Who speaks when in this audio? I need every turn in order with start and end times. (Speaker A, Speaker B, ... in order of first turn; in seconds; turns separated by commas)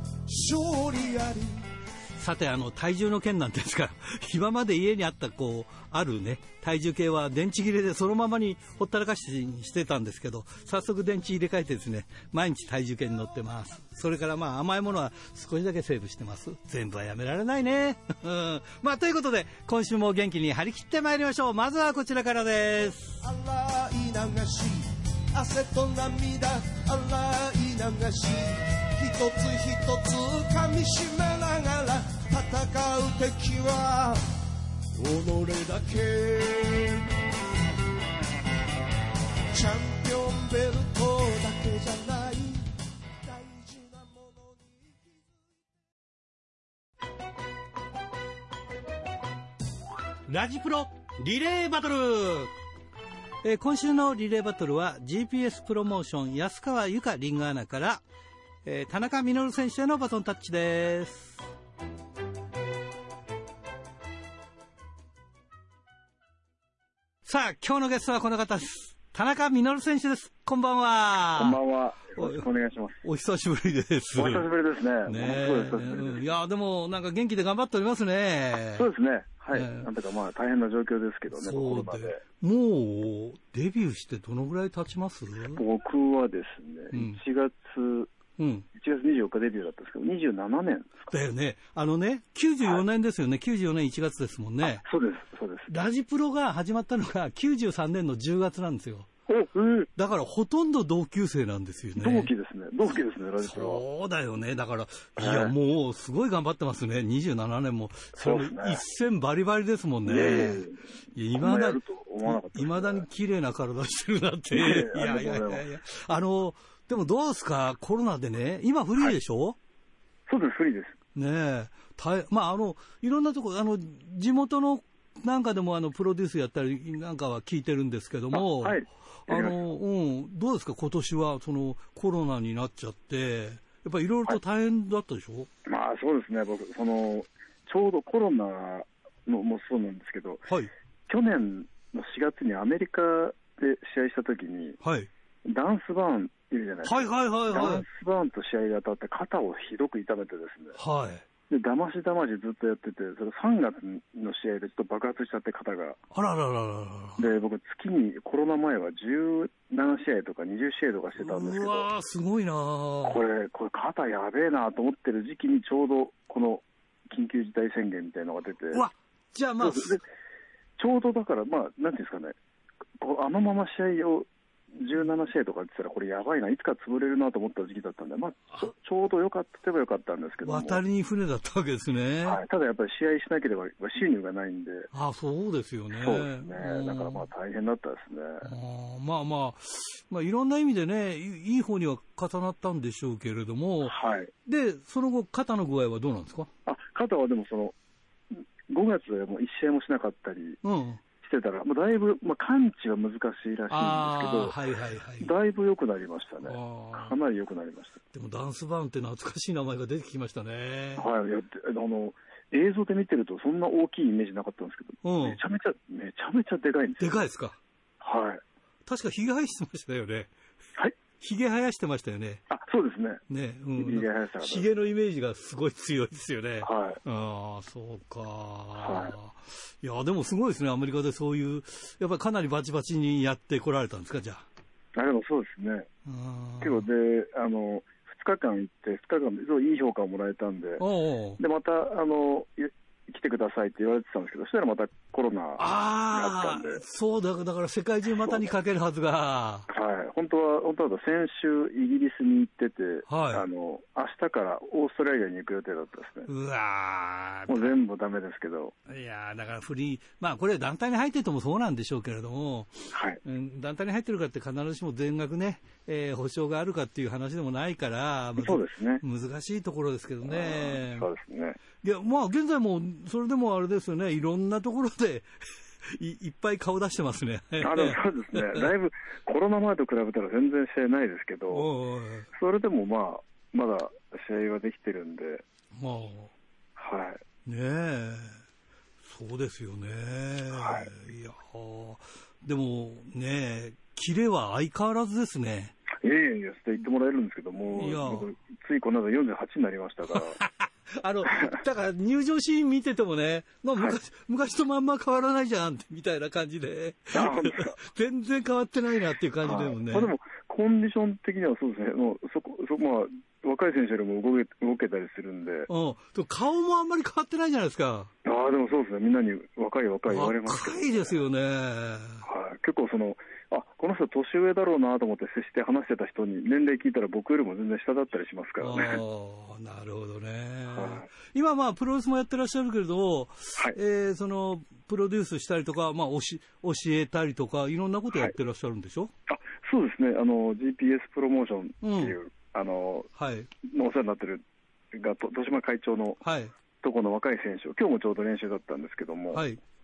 Speaker A: 0.3-1.6, Speaker B: 2.2-23.2, Speaker A: 23.2-34.2, Speaker A: 35.0-37.1, Speaker A: 39.5-42.7, Speaker A: 43.2-45.7, Speaker B: 50.3-52.5, Speaker B: 53.4-58.0, Speaker B: 58.6-61.4, Speaker B: 67.2-71.6, Speaker C: 71.4-73.0, Speaker B: 72.2-72.4, Speaker B: 73.0-74.5, Speaker C: 74.2-76.2, Speaker B: 75.1-78.9, Speaker C: 78.8-82.2, Speaker B: 79.5-79.9, Speaker B: 81.3-85.6, Speaker C: 85.5-88.1, Speaker B: 86.9-87.2, Speaker B: 88.4-88.7, Speaker C: 88.8-91.1, Speaker B: 91.1-94.8, Speaker C: 94.6-95.7, Speaker B: 95.7-99.1, Speaker C: 99.3-99.9, Speaker B: 100.0-102.3, Speaker C: 102.0-103.8, Speaker B: 103.4-119.6, Speaker C: 105.2-105.5, Speaker C: 108.2-108.8, Speaker C: 110.1-110.8, Speaker C: 111.3-113.1, Speaker C: 114.5-115.6, Speaker C: 120.3-121.0, Speaker B: 121.2-135.5, Speaker C: 128.3-129.6, Speaker C: 135.7-140.4, Speaker C: 141.1-144.8, Speaker B: 144.8-145.1, Speaker C: 145.5-150.8, Speaker B: 146.8-147.8, Speaker B: 150.8-151.2, Speaker C: 151.5-156.0, Speaker B: 156.1-157.3, Speaker C: 157.2-161.9, Speaker B: 161.2-163.2, Speaker C: 163.0-168.8, Speaker B: 168.7-170.0, Speaker C: 169.6-170.0, Speaker C: 170.8-172.4, Speaker C: 173.0-180.8, Speaker B: 180.4-182.4, Speaker C: 182.2-184.9, Speaker B: 184.9-187.3, Speaker C: 185.9-188.5, Speaker B: 188.4-196.5, Speaker C: 193.9-194.3, Speaker C: 196.7-197.8, Speaker C: 198.3-200.6, Speaker B: 200.6-201.0, Speaker C: 201.2-204.6, Speaker B: 203.7-205.3, Speaker C: 205.2-208.0, Speaker B: 206.4-207.2, Speaker B: 208.1-211.1, Speaker C: 211.0-217.3, Speaker B: 215.0-215.4, Speaker B: 217.0-217.6, Speaker C: 218.0-218.4, Speaker B: 218.9-220.3, Speaker B: 221.2-222.4, Speaker C: 222.5-223.2, Speaker B: 223.3-234.4, Speaker C: 223.8-224.7, Speaker C: 226.6-227.0, Speaker C: 228.8-229.2, Speaker C: 235.0-235.9, Speaker B: 236.1-236.9, Speaker C: 236.6-240.8, Speaker B: 240.8-241.4, Speaker C: 241.4-246.8, Speaker B: 245.6-249.7, Speaker C: 248.3-248.5, Speaker C: 249.7-256.3, Speaker B: 253.1-253.5, Speaker B: 256.3-257.7, Speaker C: 257.5-258.7, Speaker B: 258.9-271.1, Speaker C: 262.9-263.2, Speaker C: 268.4-269.0, Speaker C: 270.2-271.6, Speaker B: 271.8-275.3, Speaker B: 275.8-278.7, Speaker C: 277.6-281.6, Speaker B: 281.5-282.3, Speaker C: 282.3-285.4, Speaker B: 285.8-286.3, Speaker C: 286.8-287.2, Speaker B: 287.5-288.4, Speaker B: 289.0-295.7, Speaker C: 290.5-290.9, Speaker C: 296.0-300.4, Speaker B: 297.8-298.3, Speaker B: 300.2-310.1, Speaker C: 307.1-307.8, Speaker C: 309.4-315.7, Speaker B: 315.7-318.1, Speaker C: 318.2-321.2, Speaker B: 320.1-322.3, Speaker C: 322.2-329.0, Speaker B: 328.6-339.1, Speaker C: 330.7-331.1, Speaker C: 339.3-343.1, Speaker B: 341.8-342.2, Speaker B: 343.2-343.5, Speaker C: 343.6-346.2, Speaker B: 346.2-346.5, Speaker C: 346.8-349.4, Speaker B: 349.3-349.6